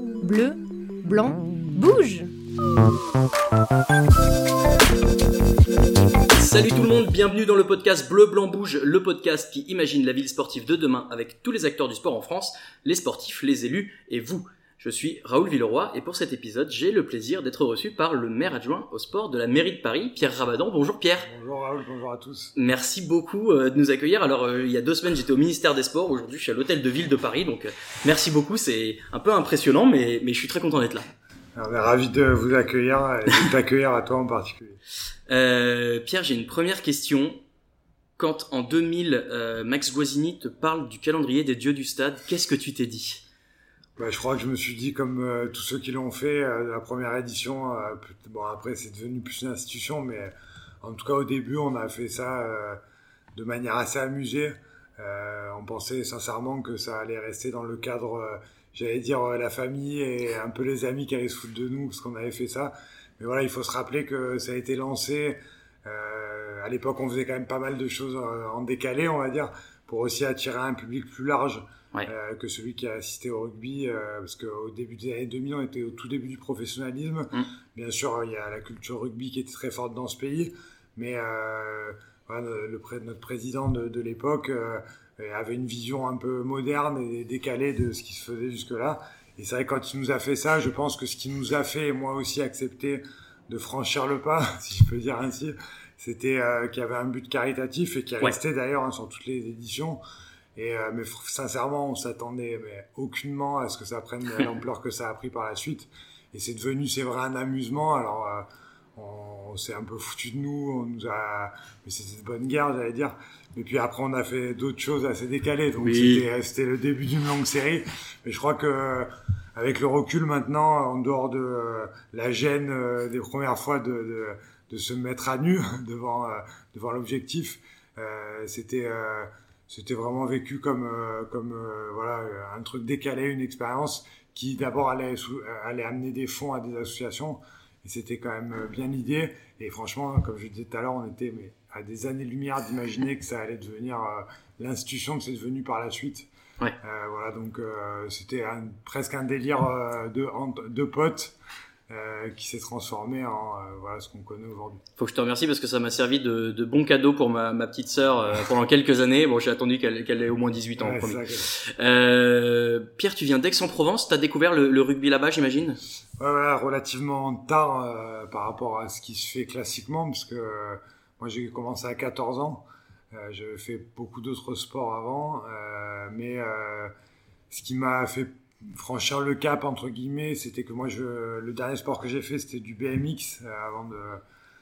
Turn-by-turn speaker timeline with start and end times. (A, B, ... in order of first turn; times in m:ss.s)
0:00.2-0:02.3 A
0:06.3-0:21.3 B
0:21.2-0:22.6 C
0:22.6-0:31.1 B
0:31.6-0:34.8 C
0:35.3-0:37.4 B
0:38.2-0:43.2 B
0:44.0-0:52.8 C
0:53.4-1:40.0 C
1:40.6-2:26.3 C
1:55.8-1:56.3 B
2:26.8-2:31.4 C
2:31.9-2:34.8 C
2:35.0-2:45.8 B
2:40.8-2:41.5 C
2:46.2-2:56.9 C
2:57.5-3:04.2 C